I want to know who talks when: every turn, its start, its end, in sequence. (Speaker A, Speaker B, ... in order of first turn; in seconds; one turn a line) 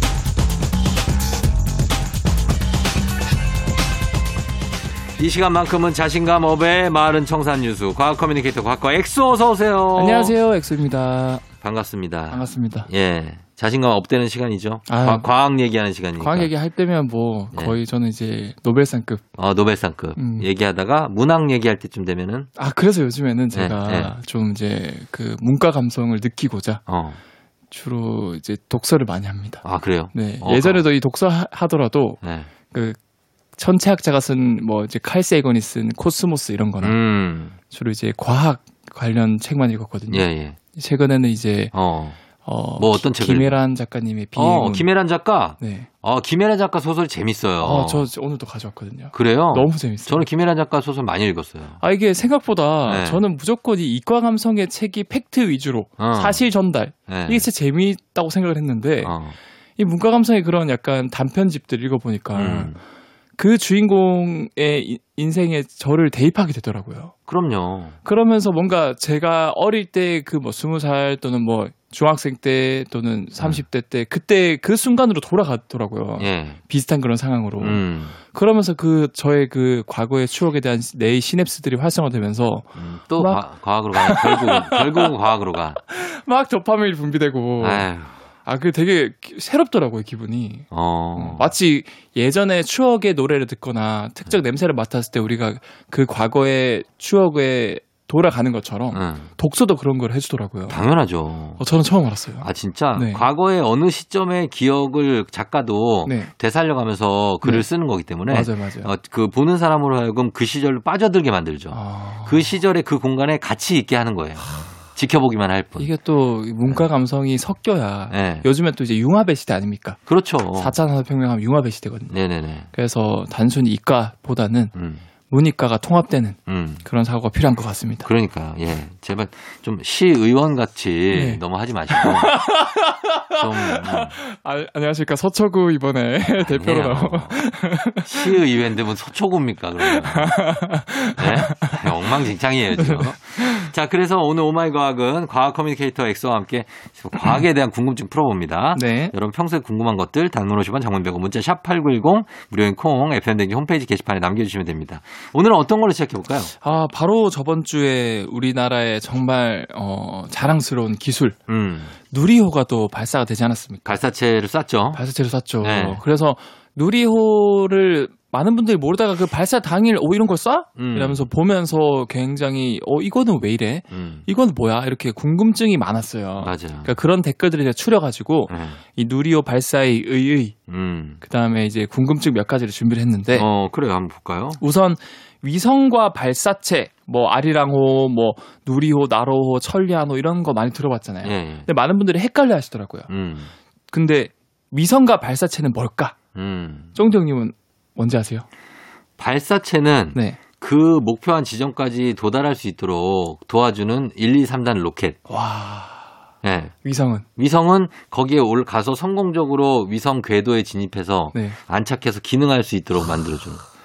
Speaker A: 5.2-10.3
Speaker B: 9.9-11.4
Speaker A: 11.6-16.5
Speaker B: 12.3-12.9
Speaker B: 14.9-15.3
Speaker B: 16.2-19.2
Speaker A: 19.4-22.5
Speaker B: 20.1-20.5
Speaker B: 22.6-26.8
Speaker A: 23.5-24.1
Speaker A: 26.9-27.2
Speaker B: 27.7-32.2
Speaker A: 29.6-30.8
Speaker A: 32.2-32.5
Speaker B: 32.7-33.0
Speaker B: 33.5-37.0
Speaker A: 36.8-37.5
Speaker B: 37.7-41.7
Speaker A: 40.1-40.6
Speaker A: 41.7-42.2
Speaker B: 42.4-44.9
Speaker A: 42.8-43.6
Speaker A: 44.4-48.1
Speaker B: 45.6-45.9
Speaker B: 47.6-50.2
Speaker A: 49.1-51.8
Speaker B: 51.8-59.1
Speaker A: 52.9-53.2
Speaker A: 56.0-56.4
Speaker A: 57.1-57.5
Speaker A: 59.0-59.4
Speaker B: 59.8-62.7
Speaker A: 62.3-62.8
Speaker B: 63.4-67.1
Speaker A: 67.3-67.9
Speaker B: 68.0-85.1
Speaker A: 76.2-76.6
Speaker A: 77.6-78.1
Speaker A: 82.7-85.8
Speaker B: 85.8-87.9
Speaker A: 87.6-88.1
Speaker B: 88.4-100.8
Speaker A: 90.7-91.5
Speaker A: 98.9-99.3
Speaker A: 100.7-101.6
Speaker B: 101.6-103.2
Speaker A: 102.4-115.9
Speaker B: 106.0-106.3
Speaker B: 108.3-108.9
Speaker B: 111.7-112.5
Speaker B: 114.4-114.7
Speaker B: 115.8-120.0
Speaker A: 118.1-118.5
Speaker A: 120.1-120.7
Speaker B: 120.6-122.1
Speaker A: 122.1-122.7
Speaker B: 122.7-124.7
Speaker A: 124.7-125.0
Speaker B: 125.3-128.1
Speaker A: 126.5-126.8
Speaker A: 128.0-132.4
Speaker B: 131.1-138.4
Speaker A: 133.3-134.2
Speaker A: 136.4-137.4
Speaker A: 138.0-140.5
Speaker B: 139.8-142.2
Speaker A: 141.2-156.5
Speaker B: 142.8-143.7
Speaker B: 148.7-149.1
Speaker B: 156.6-161.4
Speaker A: 161.5-161.9
Speaker B: 162.1-164.0
Speaker A: 163.8-165.0
Speaker B: 164.9-180.5
Speaker A: 165.6-166.0
Speaker A: 170.8-171.2
Speaker A: 173.9-174.2
Speaker A: 176.4-176.9
Speaker A: 178.5-178.8
Speaker A: 180.7-181.2
Speaker B: 181.2-183.4
Speaker A: 183.3-184.6
Speaker B: 184.6-193.1
Speaker A: 191.2-191.7
Speaker A: 193.1-193.5
Speaker B: 193.9-196.2
Speaker A: 196.3-196.9
Speaker B: 196.9-198.4
Speaker A: 199.2-205.2
Speaker B: 200.1-200.4
Speaker B: 205.3-206.1
Speaker A: 206.4-206.7
Speaker B: 206.8-207.2
Speaker A: 207.4-213.6
Speaker B: 211.3-211.6